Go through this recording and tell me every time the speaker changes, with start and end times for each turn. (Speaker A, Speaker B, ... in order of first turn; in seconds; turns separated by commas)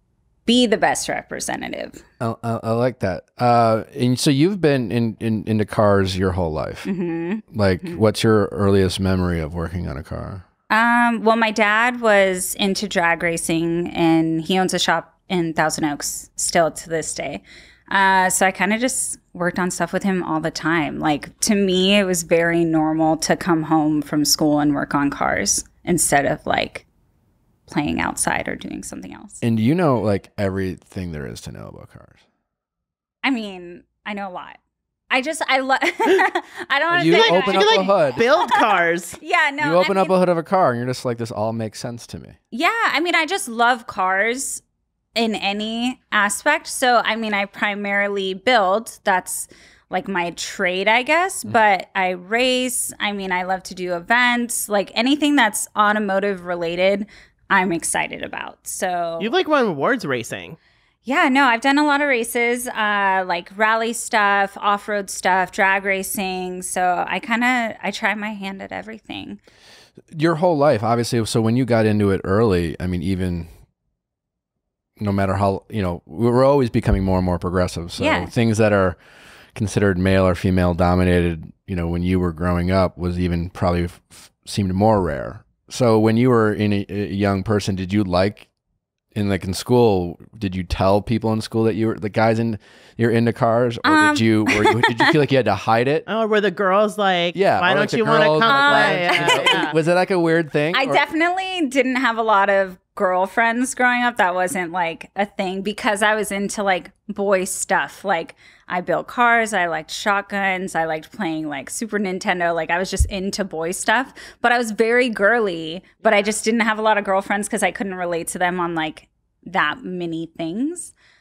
Speaker A: 0.5-2.0, Speaker B: 2.2-6.9, Speaker A: 6.8-8.0, Speaker B: 7.5-10.4, Speaker A: 10.7-26.8, Speaker A: 27.7-29.4, Speaker B: 29.4-32.2, Speaker A: 33.2-34.6, Speaker A: 35.1-40.1, Speaker B: 36.9-38.2, Speaker C: 37.0-39.2, Speaker B: 39.6-42.4, Speaker A: 42.5-44.6, Speaker A: 45.1-59.3, Speaker C: 59.2-60.6, Speaker A: 61.0-69.4, Speaker B: 70.1-73.5, Speaker B: 75.0-79.0, Speaker A: 78.0-78.3, Speaker B: 79.5-88.5, Speaker B: 89.1-96.0, Speaker A: 93.8-95.1, Speaker C: 96.1-99.7, Speaker B: 97.3-101.0, Speaker A: 98.4-99.7, Speaker A: 100.7-120.9, Speaker C: 116.0-116.3